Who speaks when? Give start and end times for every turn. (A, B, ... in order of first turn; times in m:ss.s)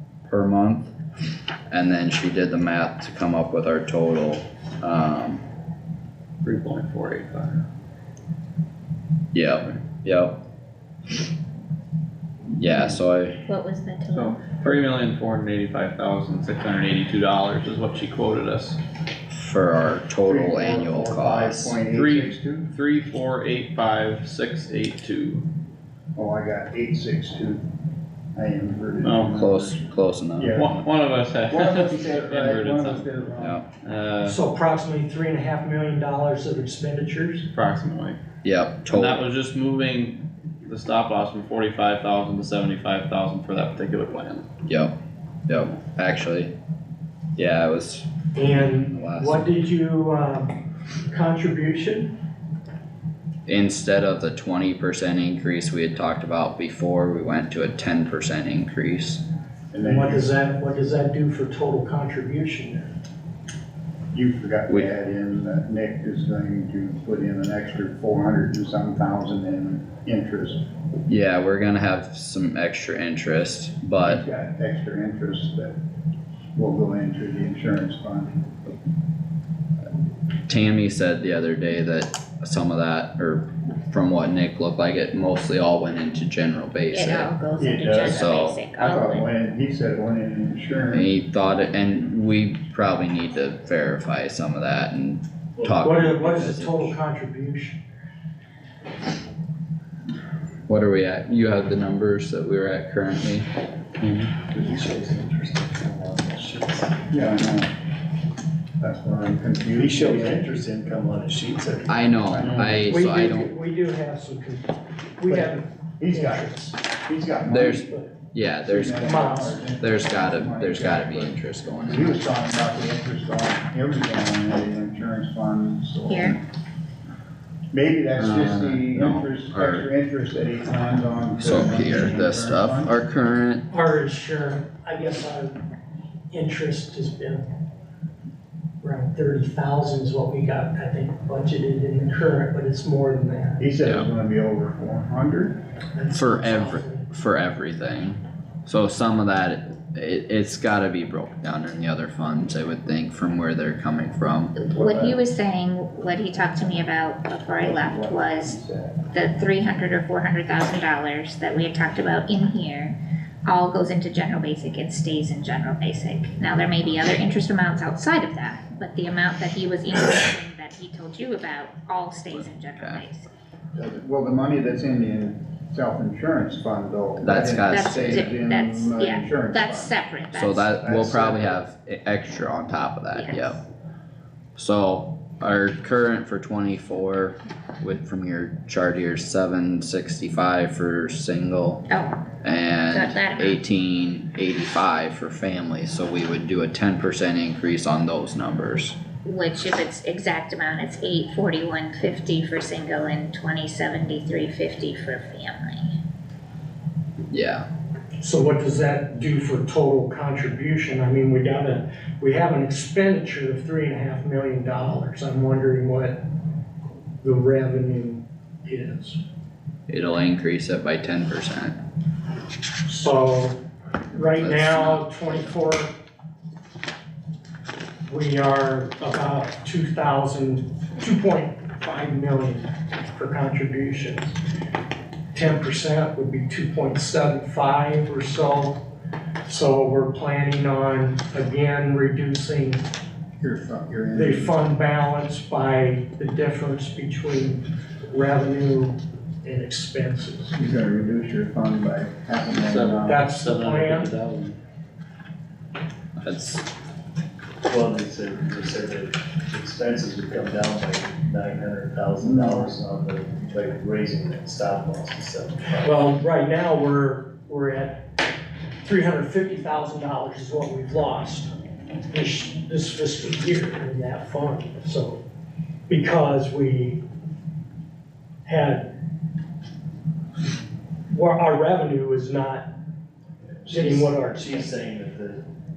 0:00.3-0:00.9 A
0:01.7-0:05.4 A
0:06.4-0:07.6 B
0:09.3-0:10.4 A
0:12.5-0:13.4 A
0:13.5-0:14.4 C
0:14.1-0:18.8 B
0:19.3-0:21.7 A
0:20.2-0:22.7 D
0:21.6-0:25.4 B
0:26.1-0:27.7 D
0:28.3-0:29.8 D
0:29.0-0:29.4 B
0:29.4-0:30.6 A
0:30.4-0:30.8 D
0:30.5-0:33.1 B
0:31.5-0:33.6 D
0:33.4-0:33.6 A
0:33.8-0:34.4 B
0:34.2-0:37.5 E
0:37.5-0:38.2 B
0:38.4-0:39.2 A
0:38.8-0:44.5 B
0:44.6-0:44.9 A
0:45.5-0:46.5 A
0:47.4-0:49.5 A
0:48.3-0:50.6 E
0:51.1-0:52.1 E
0:53.5-0:59.2 A
0:59.7-1:00.3 D
0:59.8-1:02.9 E
1:04.1-1:10.6 D
1:11.1-1:14.2 A
1:14.0-1:15.8 D
1:16.5-1:18.5 D
1:20.5-1:27.3 A
1:26.9-1:29.3 C
1:27.6-1:28.2 D
1:28.0-1:28.6 A
1:28.8-1:31.1 D
1:30.9-1:37.0 A
1:35.6-1:37.8 E
1:40.7-1:43.5 A
1:44.0-1:44.3 A
1:44.5-1:47.0 F
1:47.1-1:47.7 D
1:48.8-1:50.6 D
1:49.7-1:52.1 F
1:51.9-1:53.5 A
1:52.3-1:52.9 D
1:52.7-1:56.8 E
1:55.2-1:57.9 D
1:57.5-1:59.1 A
1:57.8-1:58.1 E
1:58.6-2:06.4 D
1:59.0-1:59.6 E
1:59.8-2:02.2 A
2:06.1-2:06.4 C
2:07.7-2:12.9 D
2:08.2-2:09.9 A
2:11.4-2:13.7 A
2:13.7-2:15.6 E
2:16.3-2:17.4 E
2:18.8-2:23.6 E
2:23.6-2:25.6 D
2:25.9-2:27.0 E
2:26.1-2:34.5 A
2:34.6-2:38.6 C
2:34.7-2:35.2 D
2:37.6-2:39.0 D
2:39.1-2:53.3 C
2:52.3-2:53.0 A
2:53.7-2:59.9 D
2:57.2-2:58.2 A
2:57.6-3:00.7 C
3:00.3-3:03.6 A
3:00.7-3:01.6 D
3:03.1-3:03.6 C
3:04.6-3:11.8 A
3:11.9-3:12.2 C
3:12.4-3:19.0 A
3:12.9-3:13.6 C
3:19.2-3:26.0 C
3:27.3-3:27.6 A
3:28.2-3:36.2 E
3:37.2-3:39.2 E
3:39.9-3:41.8 A
3:42.8-3:43.6 E
3:44.1-3:45.9 E
3:44.2-3:45.6 A
3:48.1-3:54.4 E
3:55.3-3:58.8 E
3:59.4-4:02.8 E
4:03.4-4:04.5 D
4:04.1-4:10.5 E
4:10.5-4:13.2 D
4:12.6-4:14.6 B
4:13.0-4:14.2 E
4:16.2-4:16.6 A
4:17.6-4:26.0 F
4:22.2-4:22.7 D
4:25.8-4:28.2 E
4:28.8-4:31.5 E
4:32.1-4:35.2 E
4:35.9-4:37.0 E
4:38.4-4:38.9 E
4:41.1-4:42.7 E
4:43.6-4:45.4 F
4:43.7-4:44.7 E